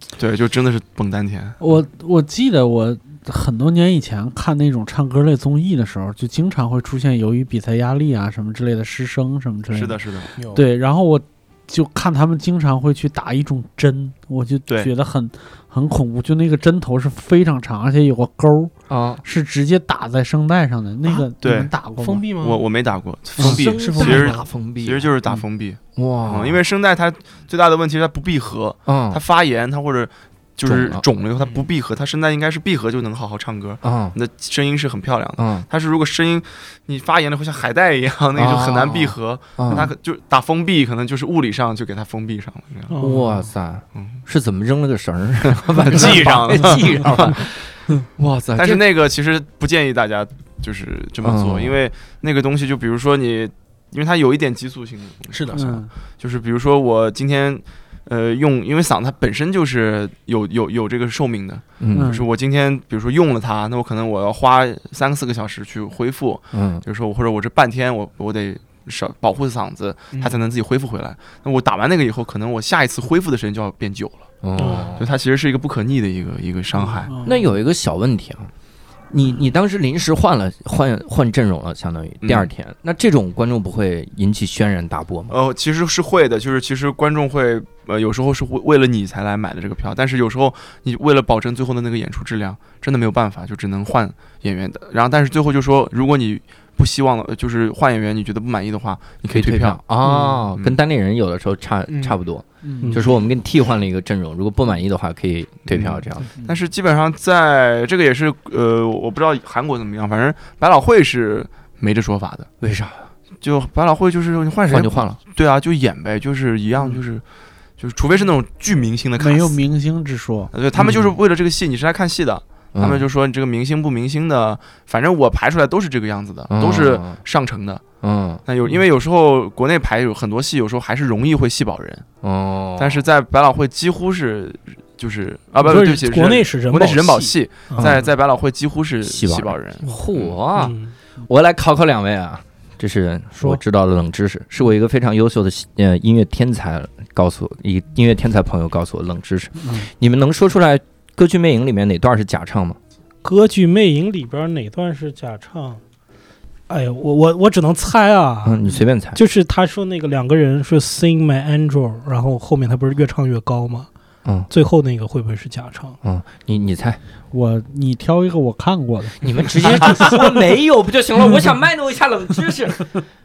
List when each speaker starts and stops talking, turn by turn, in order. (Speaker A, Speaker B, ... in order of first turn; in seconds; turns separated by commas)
Speaker A: 0.2-1.6, Speaker B: 1.6-10.0, Speaker A: 9.7-10.3, Speaker C: 10.4-10.6, Speaker B: 10.5-22.2, Speaker D: 18.9-19.2, Speaker A: 21.4-21.7, Speaker C: 22.0-22.6, Speaker A: 22.4-43.0, Speaker D: 23.4-25.1, Speaker C: 23.4-24.4, Speaker D: 25.9-26.6, Speaker D: 28.9-29.2, Speaker D: 30.6-31.0, Speaker D: 33.8-34.1, Speaker D: 35.4-35.6, Speaker D: 38.4-39.9, Speaker E: 42.9-43.3, Speaker D: 43.0-48.8, Speaker A: 45.5-47.4, Speaker A: 48.2-77.1, Speaker D: 51.2-51.8, Speaker C: 55.3-55.8, Speaker B: 55.5-55.9, Speaker D: 61.8-62.2, Speaker B: 61.9-62.2, Speaker D: 66.5-66.8, Speaker C: 70.1-70.4, Speaker D: 74.4-75.1, Speaker E: 74.6-74.9, Speaker B: 77.0-77.4, Speaker D: 77.2-78.5, Speaker D: 79.1-85.3, Speaker A: 82.2-82.5, Speaker A: 85.3-99.8, Speaker D: 99.3-106.3, Speaker B: 100.1-100.5, Speaker C: 101.9-102.2, Speaker B: 102.6-103.0, Speaker A: 105.7-112.5, Speaker D: 112.6-113.0, Speaker A: 113.4-117.2, Speaker D: 114.7-115.2, Speaker A: 117.8-119.6, Speaker B: 119.2-120.5, Speaker A: 120.5-127.8, Speaker D: 122.7-123.0, Speaker D: 126.5-127.2, Speaker D: 128.0-128.4, Speaker A: 128.4-132.0, Speaker D: 132.2-133.0, Speaker A: 132.8-140.3, Speaker E: 135.6-137.9, Speaker D: 137.8-138.0, Speaker D: 139.0-152.8, Speaker E: 140.5-140.9, Speaker B: 149.6-149.9, Speaker E: 153.2-155.8, Speaker E: 156.7-163.9, Speaker D: 158.4-159.2, Speaker E: 164.5-166.0, Speaker D: 166.0-167.0, Speaker B: 167.3-170.2, Speaker D: 169.2-173.0